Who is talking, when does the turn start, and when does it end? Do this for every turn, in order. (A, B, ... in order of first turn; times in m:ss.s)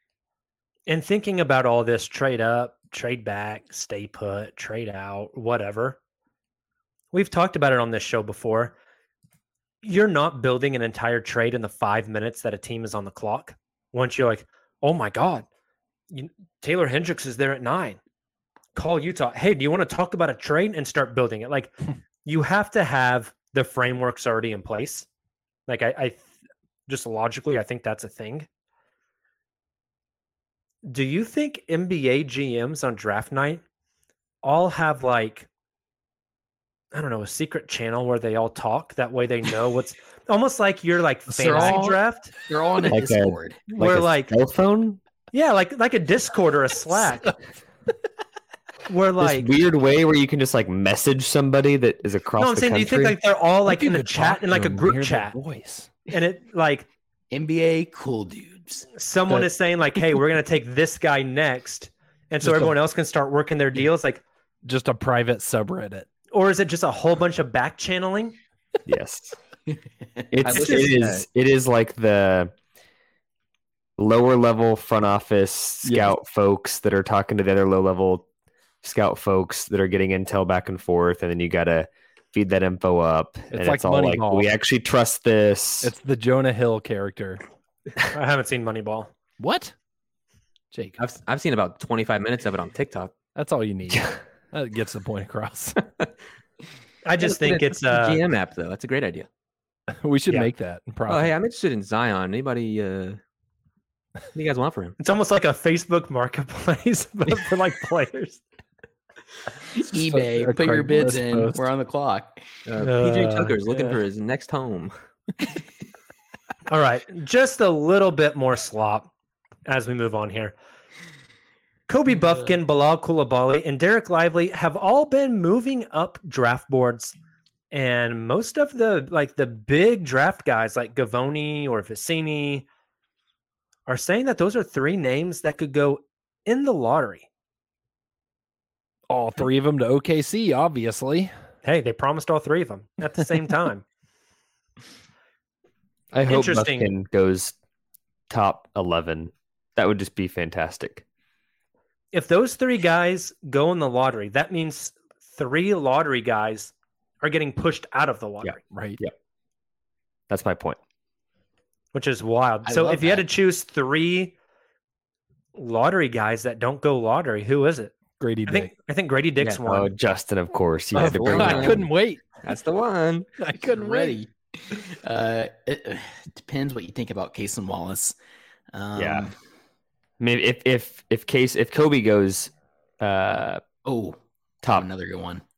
0:00.9-0:06.0 A
0:07.1-0:08.7 A
0:09.8-0:15.4 A
0:16.1-0:18.0 A
0:18.7-0:21.7 A
0:22.2-0:25.1 A
0:25.7-0:26.3 A
0:26.9-0:28.5 A
0:30.8-0:33.6 A
0:34.4-0:35.5 A
0:36.9-0:42.3 A
0:41.3-0:43.7 B
0:42.9-0:45.0 C
0:43.7-0:44.3 A
0:45.3-0:47.3 A
0:48.9-0:49.5 A
0:49.2-0:53.2 C
0:52.4-0:55.4 A
0:53.6-0:55.9 D
0:56.1-0:56.9 A
0:57.3-0:58.9 B
0:58.9-1:04.2 A
1:02.4-1:02.7 D
1:04.6-1:06.1 D
1:06.3-1:08.4 A
1:08.9-1:09.3 C
1:09.7-1:10.6 B
1:10.3-1:12.5 C
1:10.4-1:11.2 E
1:10.5-1:10.9 A
1:14.0-1:18.2 C
1:15.8-1:16.1 D
1:18.8-1:25.9 C
1:23.5-1:24.5 D
1:25.8-1:27.4 D
1:28.1-1:29.1 A
1:29.4-1:29.7 D
1:30.7-1:31.0 D
1:31.0-1:33.1 E
1:33.4-1:35.8 D
1:37.0-1:38.2 A
1:37.2-1:39.3 E
1:40.0-1:41.3 D
1:41.1-1:43.2 E
1:44.3-1:45.0 E
1:45.0-1:48.4 A
1:49.8-1:52.4 B
1:49.9-1:51.6 D
1:52.7-1:54.9 E
1:52.8-1:53.6 A
1:56.7-1:59.1 A
1:59.6-2:00.5 A
2:01.9-2:07.1 A
2:07.7-2:12.6 A
2:13.9-2:17.3 A
2:19.1-2:21.3 D
2:21.6-2:23.8 A
2:26.1-2:27.5 C
2:26.3-2:26.9 A
2:28.3-2:31.0 C
2:32.1-2:38.6 A
2:38.4-2:39.1 C
2:38.6-2:39.0 D
2:40.3-2:40.8 C
2:41.9-2:44.3 A
2:42.6-2:43.2 B
2:45.5-2:49.9 A
2:48.2-2:48.7 D
2:49.6-2:51.8 C
2:50.9-2:52.2 D
2:51.2-2:51.9 E
2:52.4-2:53.3 E
2:53.4-2:54.2 D
2:53.6-2:58.1 B
2:58.7-2:59.3 B
2:58.9-2:59.2 C
3:00.2-3:03.6 C
3:03.8-3:05.4 B